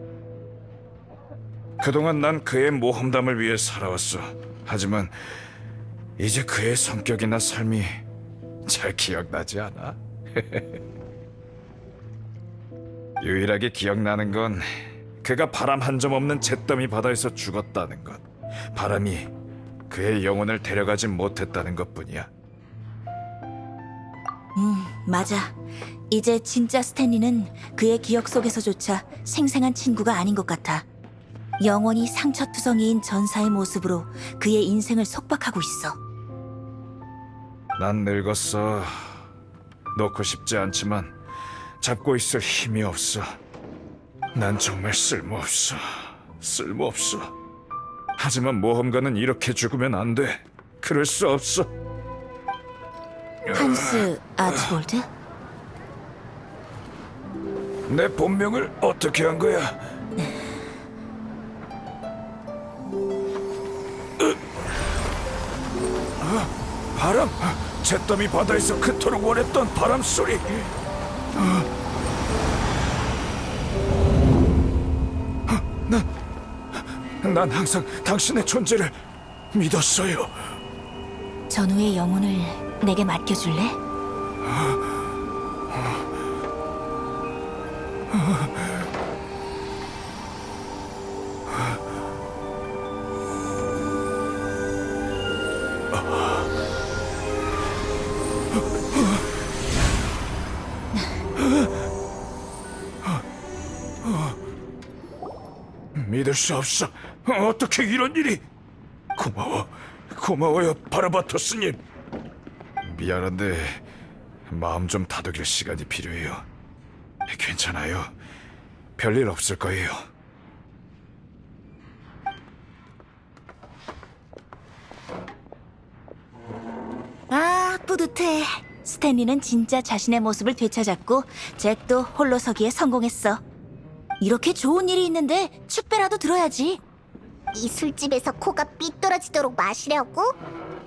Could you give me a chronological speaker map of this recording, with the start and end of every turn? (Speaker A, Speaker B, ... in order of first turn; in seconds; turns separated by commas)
Speaker A: 1.8-5.4, Speaker A: 6.2-8.0, Speaker A: 8.7-10.8, Speaker A: 13.2-19.3, Speaker A: 19.9-22.3, Speaker B: 24.6-25.6, Speaker B: 26.1-30.9, Speaker B: 31.6-36.0, Speaker A: 37.8-39.2, Speaker A: 39.9-41.1, Speaker A: 41.8-43.4, Speaker A: 44.4-47.3, Speaker A: 48.2-51.7, Speaker A: 53.5-54.1, Speaker B: 53.5-55.1, Speaker A: 57.9-59.8, Speaker B: 60.2-60.5, Speaker A: 66.2-70.7, Speaker A: 71.4-71.7, Speaker A: 75.5-76.1, Speaker A: 77.2-79.0, Speaker A: 79.5-80.5, Speaker B: 81.5-83.8, Speaker A: 95.9-96.4, Speaker A: 101.4-101.7, Speaker A: 104.0-104.3, Speaker A: 106.0-108.4, Speaker A: 109.2-111.8, Speaker A: 112.8-113.8, Speaker A: 114.5-116.5, Speaker A: 117.3-118.1, Speaker A: 119.0-120.0, Speaker B: 127.3-133.4, Speaker B: 134.2-136.8, Speaker C: 137.5-140.3